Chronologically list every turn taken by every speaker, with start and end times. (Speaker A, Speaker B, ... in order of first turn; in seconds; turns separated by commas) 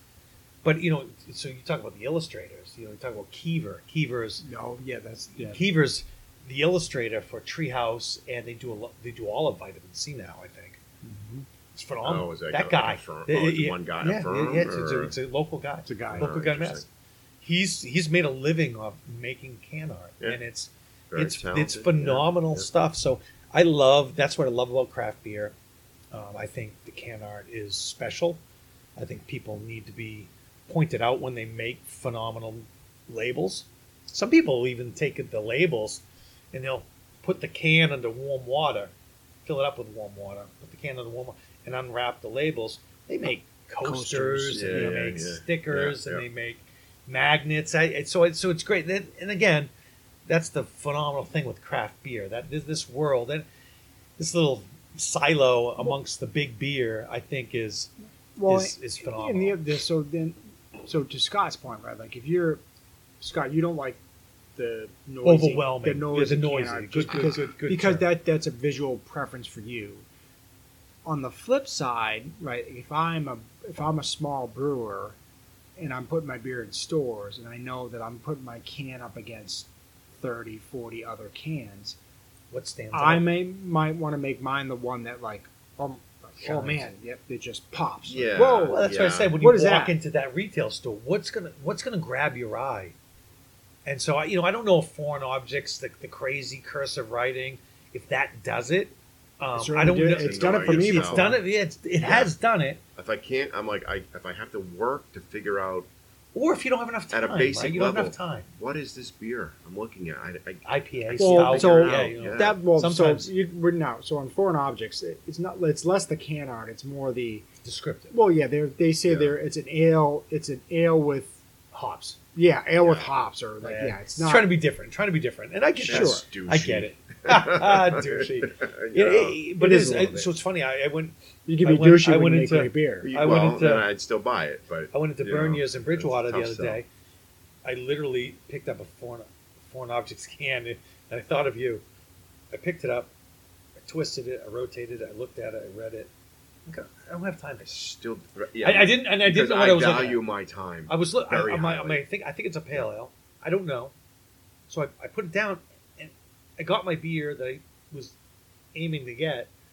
Speaker A: 0.6-4.4, Speaker B: 4.4-5.6, Speaker A: 5.4-10.8, Speaker B: 11.0-11.5, Speaker A: 11.7-16.9, Speaker C: 12.0-15.2, Speaker B: 15.8-16.3, Speaker C: 16.1-16.8, Speaker A: 17.4-25.5, Speaker C: 21.1-22.7, Speaker A: 26.1-28.4, Speaker A: 29.0-38.9, Speaker A: 39.4-49.7, Speaker B: 43.8-45.1, Speaker C: 44.5-46.2, Speaker A: 50.3-53.5, Speaker A: 54.2-57.9, Speaker B: 58.4-62.6, Speaker A: 58.5-59.6, Speaker B: 63.2-64.0, Speaker B: 64.5-70.0, Speaker A: 65.2-68.1, Speaker B: 71.0-75.2, Speaker B: 75.8-82.0, Speaker A: 82.5-83.2, Speaker B: 82.9-90.0, Speaker A: 86.4-86.9, Speaker C: 88.0-89.3, Speaker A: 88.7-92.9, Speaker A: 93.8-102.8, Speaker B: 99.5-101.4, Speaker C: 100.0-101.4, Speaker C: 102.0-102.3, Speaker C: 103.0-105.9, Speaker A: 106.3-108.5, Speaker C: 107.1-112.6, Speaker A: 110.7-113.3, Speaker B: 111.2-117.5, Speaker A: 117.6-118.1, Speaker B: 118.1-121.4, Speaker C: 119.1-119.3, Speaker A: 121.7-122.2, Speaker B: 122.3-124.5, Speaker C: 122.8-123.1, Speaker A: 123.6-133.9, Speaker B: 125.9-126.2, Speaker C: 125.9-130.3, Speaker B: 129.9-130.1, Speaker B: 131.5-133.1, Speaker C: 133.0-136.8, Speaker A: 134.9-136.9, Speaker A: 137.6-141.8, Speaker A: 142.5-143.1, Speaker A: 143.8-146.1, Speaker A: 146.7-147.8, Speaker C: 147.6-152.0, Speaker A: 148.6-150.3, Speaker A: 150.9-153.9, Speaker A: 154.7-158.1, Speaker A: 158.7-159.5